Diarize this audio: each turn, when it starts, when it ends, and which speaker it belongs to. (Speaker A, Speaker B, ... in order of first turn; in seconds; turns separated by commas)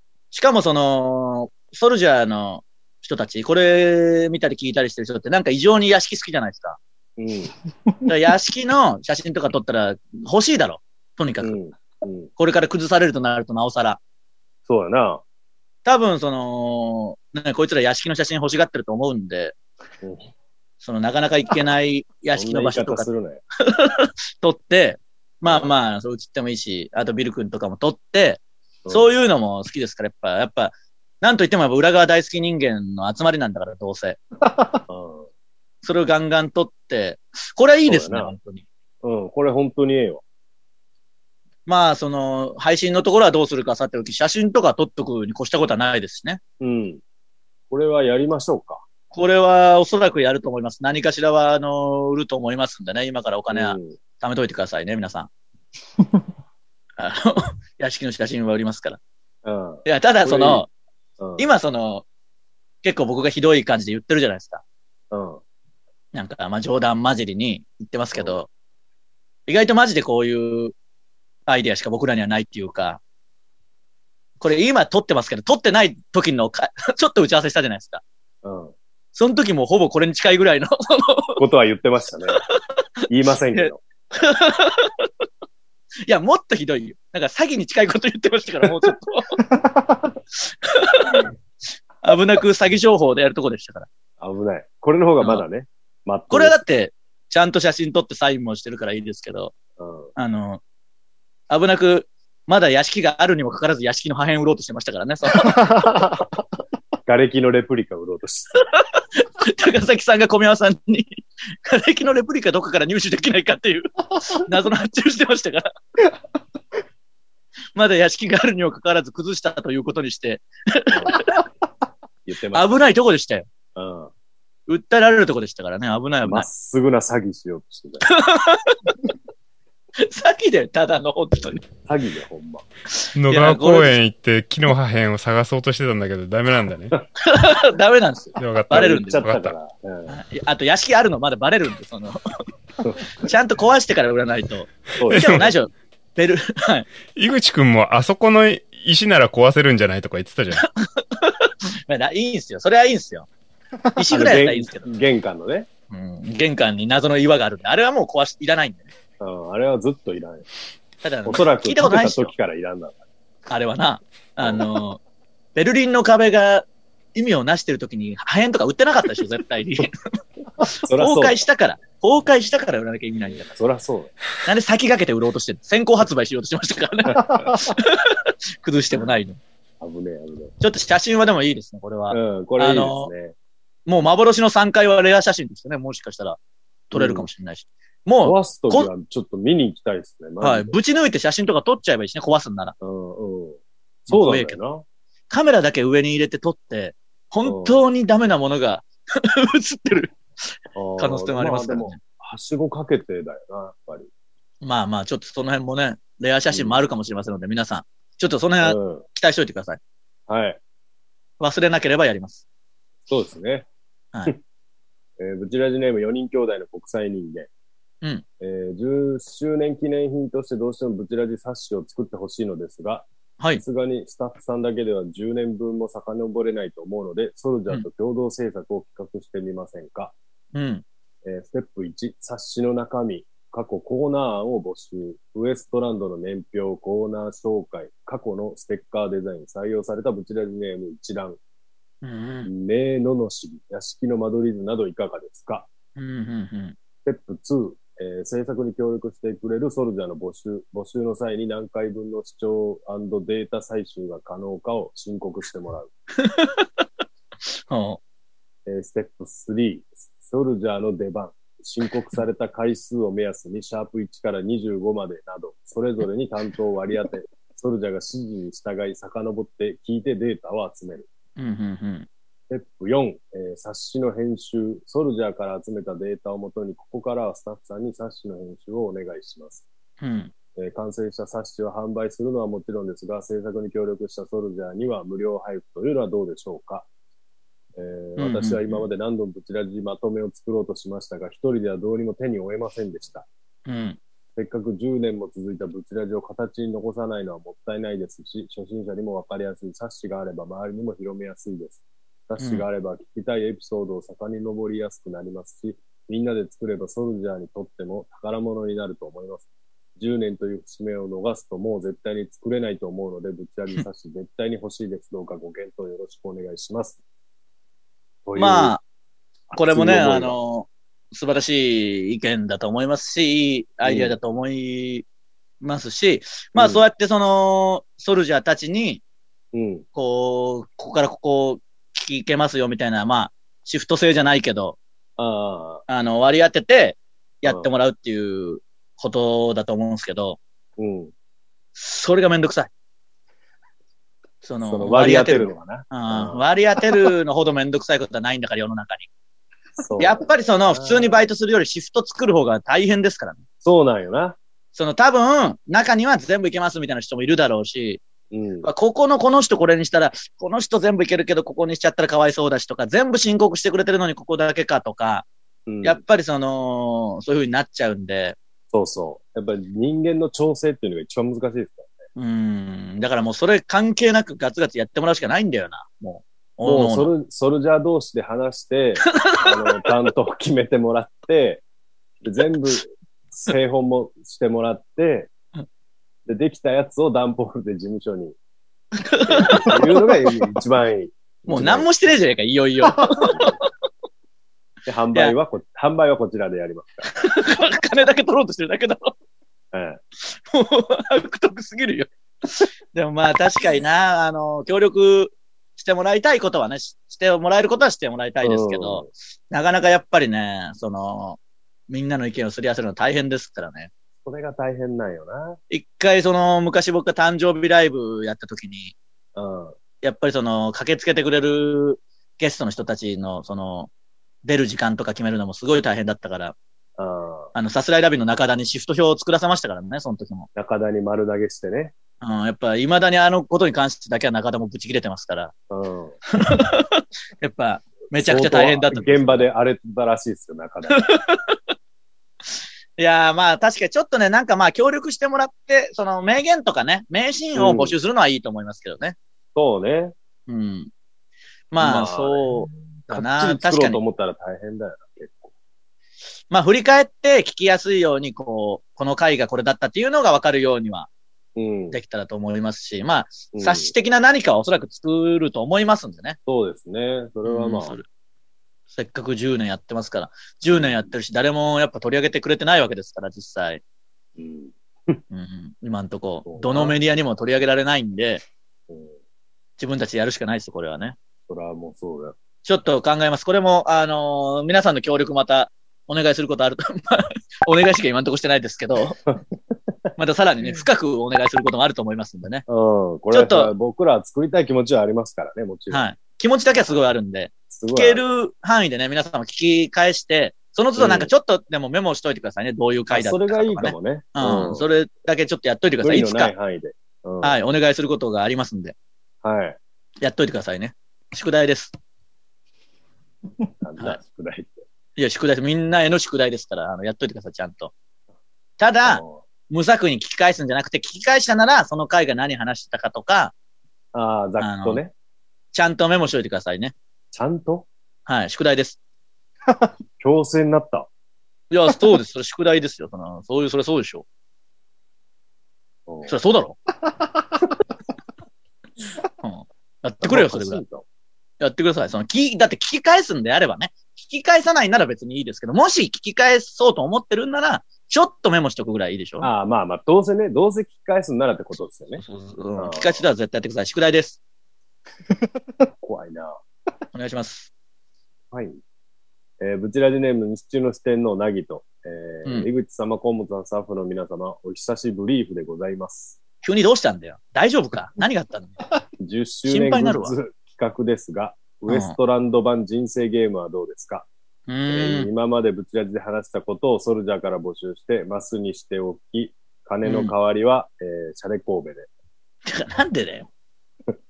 Speaker A: 0.3-6.8, Speaker B: 7.2-7.5, Speaker A: 8.1-11.6, Speaker B: 11.4-12.3, Speaker A: 12.4-14.0, Speaker B: 14.7-15.2, Speaker A: 15.8-19.5, Speaker B: 20.0-20.3, Speaker A: 20.8-23.1, Speaker B: 22.3-23.4, Speaker A: 23.7-34.2, Speaker B: 25.4-25.7, Speaker B: 28.8-29.1, Speaker B: 34.9-35.3, Speaker A: 35.8-38.6, Speaker B: 37.9-38.3, Speaker B: 39.0-40.2, Speaker A: 41.7-46.4, Speaker B: 46.6-47.0, Speaker B: 47.7-48.8, Speaker A: 49.1-55.3, Speaker B: 53.5-54.0, Speaker A: 57.0-59.0, Speaker B: 59.4-60.6, Speaker A: 59.9-60.7, Speaker B: 61.2-61.5, Speaker A: 61.4-62.0, Speaker A: 62.8-64.6, Speaker B: 65.1-65.4, Speaker A: 66.1-68.5, Speaker B: 68.1-68.4, Speaker A: 69.5-70.7, Speaker A: 71.5-73.0, Speaker A: 74.4-78.0, Speaker B: 78.4-78.7, Speaker A: 79.1-81.4, Speaker B: 81.4-82.4, Speaker B: 83.1-83.8, Speaker A: 83.5-85.1, Speaker A: 86.1-89.4, Speaker A: 90.4-91.3, Speaker A: 92.0-93.9, Speaker B: 94.2-96.6, Speaker A: 96.3-99.5, Speaker B: 99.8-100.1, Speaker A: 100.2-100.6, Speaker A: 101.5-105.9, Speaker B: 107.0-108.7, Speaker A: 108.8-115.7, Speaker A: 117.7-121.3, Speaker B: 120.9-121.2, Speaker B: 122.2-122.8, Speaker A: 122.5-123.5, Speaker B: 123.8-124.1, Speaker A: 124.7-126.5, Speaker B: 126.2-128.1, Speaker A: 128.1-129.1, Speaker A: 130.0-131.7, Speaker B: 131.8-132.6, Speaker A: 132.9-134.0, Speaker C: 133.2-136.9, Speaker A: 137.2-139.2, Speaker C: 138.4-139.5, Speaker B: 138.7-140.2, Speaker A: 140.1-142.2, Speaker B: 142.8-143.3, Speaker A: 143.1-146.9, Speaker B: 145.0-145.6, Speaker C: 145.1-145.5, Speaker C: 147.1-150.7, Speaker A: 150.6-153.3, Speaker A: 153.9-154.9, Speaker B: 154.1-155.7, Speaker A: 155.9-158.9, Speaker B: 159.2-160.4, Speaker A: 161.0-162.3, Speaker B: 161.2-163.0, Speaker A: 163.5-165.0, Speaker B: 164.4-164.6, Speaker A: 165.5-169.9, Speaker A: 170.6-173.5, Speaker B: 170.8-171.4, Speaker B: 173.3-174.1, Speaker A: 174.4-179.4, Speaker B: 177.0-177.6, Speaker B: 179.8-180.5, Speaker A: 180.6-183.1, Speaker B: 182.1-183.3, Speaker A: 183.8-186.4, Speaker A: 186.9-188.9, Speaker B: 186.9-187.3, Speaker B: 188.2-190.7, Speaker A: 190.4-192.7, Speaker B: 192.8-194.8, Speaker A: 194.1-194.6, Speaker A: 195.3-200.2, Speaker B: 197.4-197.8, Speaker B: 200.7-204.1, Speaker A: 201.0-202.0, Speaker A: 204.6-209.8, Speaker B: 206.5-206.8, Speaker B: 208.6-209.0, Speaker B: 210.3-210.6, Speaker A: 211.4-212.4, Speaker B: 213.1-213.7, Speaker B: 215.2-217.5, Speaker B: 218.4-230.1, Speaker A: 230.5-230.8, Speaker B: 231.2-241.4, Speaker A: 242.0-242.5, Speaker B: 242.4-245.7, Speaker A: 245.9-246.8, Speaker B: 247.0-255.9, Speaker A: 256.2-256.7, Speaker A: 257.7-258.0, Speaker B: 258.7-271.1, Speaker A: 271.4-272.1, Speaker B: 272.5-279.6, Speaker A: 280.0-280.3, Speaker B: 280.6-286.9, Speaker B: 287.8-293.2, Speaker A: 288.2-288.8, Speaker A: 293.7-294.0, Speaker B: 294.4-317.0, Speaker A: 302.4-302.6, Speaker B: 318.2-318.8, Speaker A: 318.4-318.8, Speaker B: 319.5-320.4, Speaker A: 319.5-325.0, Speaker B: 323.8-324.1, Speaker A: 325.6-329.0, Speaker B: 326.5-326.8, Speaker B: 329.5-329.8, Speaker A: 329.9-334.8, Speaker B: 335.2-335.8, Speaker A: 335.9-340.4, Speaker B: 337.4-337.7, Speaker B: 340.8-341.1, Speaker A: 341.8-342.7, Speaker A: 344.4-349.1, Speaker B: 344.6-346.5, Speaker B: 349.8-351.3, Speaker A: 350.0-353.4, Speaker B: 353.6-354.4, Speaker A: 354.7-358.0, Speaker B: 358.3-358.7, Speaker A: 358.6-365.3, Speaker B: 365.7-366.0, Speaker A: 365.8-368.4, Speaker B: 368.7-371.9, Speaker A: 372.1-377.1, Speaker B: 376.6-381.6, Speaker A: 379.2-379.8, Speaker B: 382.2-385.3, Speaker B: 386.2-388.4, Speaker A: 389.0-390.4, Speaker B: 389.3-391.9, Speaker A: 391.5-393.7, Speaker B: 393.1-393.6, Speaker B: 394.9-397.1, Speaker A: 397.1-399.1, Speaker B: 399.7-400.0, Speaker A: 400.2-413.9, Speaker B: 408.4-409.1, Speaker B: 414.2-415.6, Speaker A: 415.7-418.9, Speaker B: 419.4-419.7, Speaker A: 420.0-423.9, Speaker A: 424.4-426.6, Speaker B: 427.0-427.5, Speaker A: 427.5-430.5, Speaker B: 430.5-431.9, Speaker A: 432.2-435.5, Speaker B: 435.7-436.1, Speaker A: 436.3-439.5, Speaker B: 438.1-441.1, Speaker A: 440.9-441.6, Speaker A: 443.0-449.2, Speaker B: 447.6-448.0, Speaker B: 449.5-450.1, Speaker A: 450.5-450.9, Speaker A: 451.7-454.0, Speaker B: 451.8-452.5, Speaker B: 453.1-455.5, Speaker A: 456.5-461.1, Speaker B: 461.6-462.0, Speaker A: 461.9-466.4, Speaker B: 463.5-463.9, Speaker B: 466.5-467.9, Speaker A: 467.4-468.0, Speaker A: 468.9-473.8, Speaker B: 470.7-471.1, Speaker B: 474.4-475.2, Speaker A: 475.3-478.4, Speaker B: 476.4-477.0, Speaker B: 478.9-479.2, Speaker A: 479.8-481.2, Speaker B: 481.5-482.4, Speaker A: 482.6-489.2, Speaker B: 489.3-489.8, Speaker A: 490.2-492.6, Speaker B: 492.7-496.0, Speaker A: 493.3-493.7, Speaker A: 495.9-506.5, Speaker B: 497.7-498.2, Speaker B: 501.0-501.3, Speaker B: 503.1-504.9, Speaker B: 506.0-507.6, Speaker A: 507.4-508.9, Speaker B: 509.4-509.8, Speaker A: 510.2-511.9, Speaker B: 513.8-514.8, Speaker A: 515.1-517.9, Speaker A: 518.8-523.5, Speaker B: 519.0-519.4, Speaker B: 524.1-525.1, Speaker A: 524.6-525.0, Speaker A: 525.7-526.9, Speaker B: 527.3-527.9, Speaker A: 528.2-529.0, Speaker B: 530.2-531.1, Speaker A: 531.7-534.2, Speaker B: 536.1-536.3, Speaker A: 536.2-536.8, Speaker A: 539.4-540.8, Speaker B: 540.2-541.0, Speaker A: 541.6-549.5, Speaker B: 549.4-552.2, Speaker A: 552.2-554.4, Speaker B: 552.8-553.2, Speaker B: 556.0-556.6, Speaker A: 557.1-557.7, Speaker B: 558.5-558.8, Speaker B: 559.6-566.4, Speaker A: 566.6-568.8, Speaker B: 569.2-574.3, Speaker A: 569.7-570.3, Speaker A: 571.9-572.1, Speaker A: 574.7-575.3, Speaker B: 574.9-582.1, Speaker A: 580.0-580.3, Speaker A: 582.6-583.5